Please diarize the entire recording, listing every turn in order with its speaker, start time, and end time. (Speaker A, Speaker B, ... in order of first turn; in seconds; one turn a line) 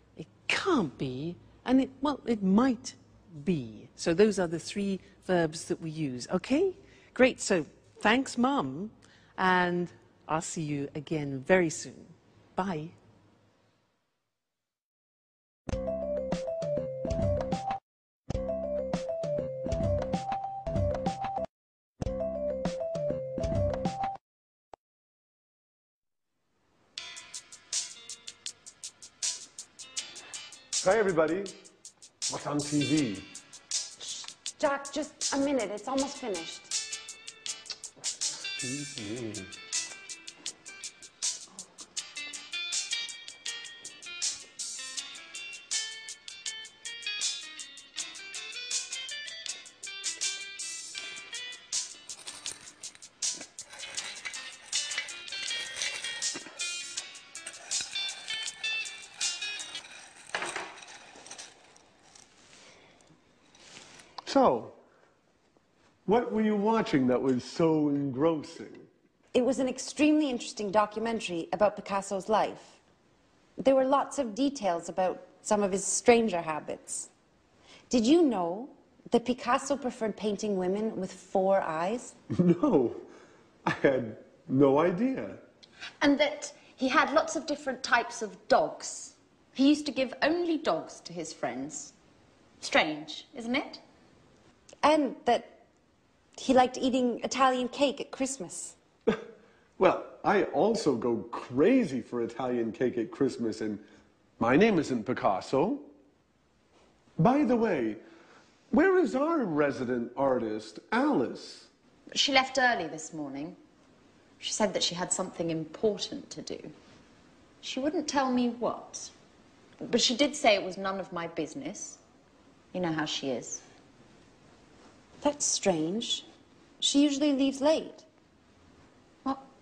Speaker A: 0.2-12.9
Speaker B: 30.8-31.5
Speaker B: 32.3-33.3
Speaker C: 34.0-36.7
Speaker B: 38.6-39.5
Speaker B: 64.2-64.7
Speaker B: 66.0-68.9
Speaker C: 69.3-72.8
Speaker C: 73.6-77.1
Speaker C: 77.9-82.1
Speaker B: 82.4-83.0
Speaker B: 83.7-85.4
Speaker D: 86.0-91.9
Speaker D: 92.6-93.8
Speaker C: 94.8-95.6
Speaker C: 96.4-98.7
Speaker B: 99.8-103.8
Speaker B: 104.4-105.9
Speaker B: 107.2-108.0
Speaker B: 108.7-111.7
Speaker D: 112.1-113.6
Speaker D: 114.4-116.7
Speaker D: 117.6-119.1
Speaker D: 119.8-122.0
Speaker D: 122.7-123.6
Speaker C: 125.2-126.3
Speaker C: 126.8-128.0